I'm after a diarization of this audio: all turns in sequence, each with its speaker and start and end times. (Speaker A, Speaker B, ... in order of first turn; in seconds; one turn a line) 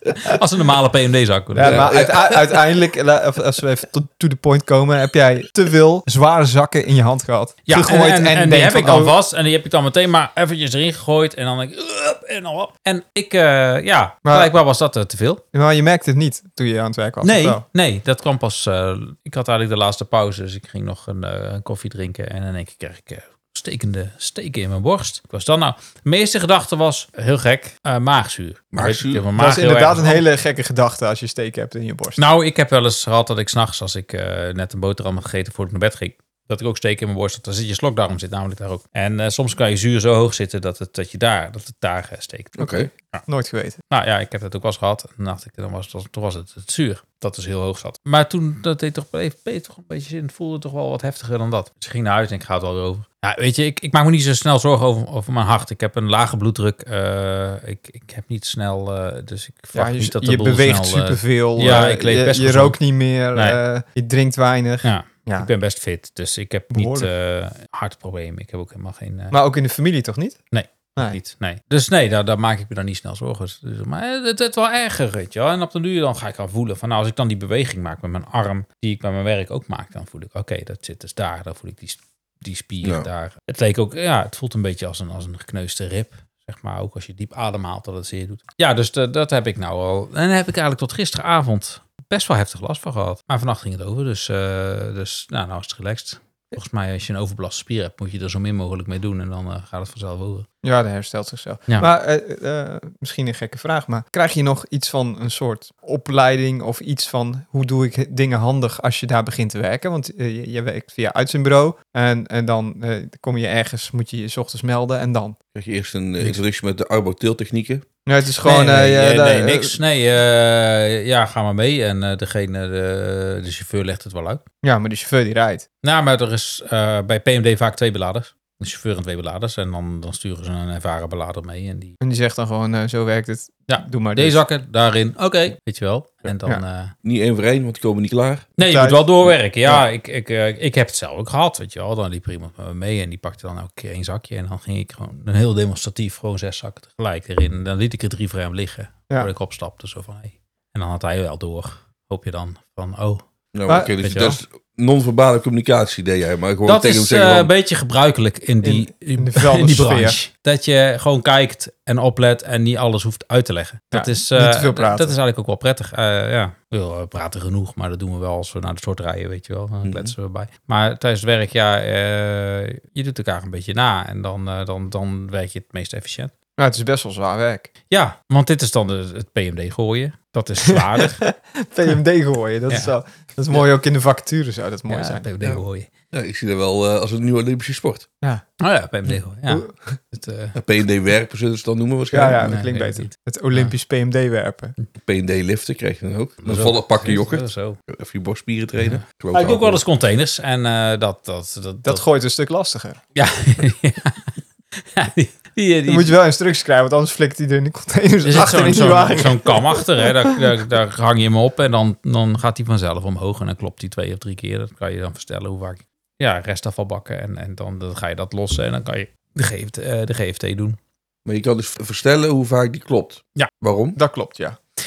Speaker A: 0.1-1.9
Speaker B: 1.5-9.1
Speaker C: 1.6-2.6
Speaker A: 7.7-15.4
Speaker B: 14.2-14.5
Speaker B: 15.5-17.6
Speaker A: 17.2-30.2
Speaker C: 28.7-29.2
Speaker B: 29.3-32.2
Speaker A: 32.2-43.2
Speaker C: 42.6-42.9
Speaker B: 42.6-43.8
Speaker A: 43.9-62.8
Speaker B: 59.7-65.5
Speaker A: 63.3-63.6
Speaker A: 64.8-69.3
Speaker B: 66.7-67.1
Speaker B: 69.3-70.4
Speaker A: 70.5-100.5
Speaker C: 82.8-83.1
Speaker B: 100.6-115.3
Speaker C: 115.5-117.8
Speaker B: 118.0-119.8
Speaker A: 118.4-124.4
Speaker B: 124.6-125.7
Speaker A: 125.8-131.9
Speaker B: 132.0-134.4
Speaker A: 133.7-136.9
Speaker C: 137.0-138.5
Speaker A: 138.6-153.2
Speaker B: 138.6-139.8
Speaker C: 153.5-157.5
Speaker B: 153.7-153.9
Speaker A: 154.0-154.4
Speaker A: 156.7-176.3
Speaker B: 158.6-160.2
Speaker B: 163.9-165.2
Speaker C: 169.8-170.1
Speaker B: 176.6-177.7
Speaker A: 177.9-181.2
Speaker B: 180.7-185.3
Speaker A: 184.9-185.9
Speaker C: 186.1-188.1
Speaker A: 188.6-190.6
Speaker B: 189.5-189.7
Speaker C: 190.6-192.5
Speaker B: 192.1-194.7
Speaker A: 192.3-193.7
Speaker C: 195.0-199.8
Speaker A: 196.4-197.8
Speaker A: 198.8-202.0
Speaker B: 201.8-203.0
Speaker A: 203.1-206.2
Speaker B: 205.9-210.3
Speaker A: 208.2-220.8
Speaker C: 221.2-224.0
Speaker B: 223.9-224.6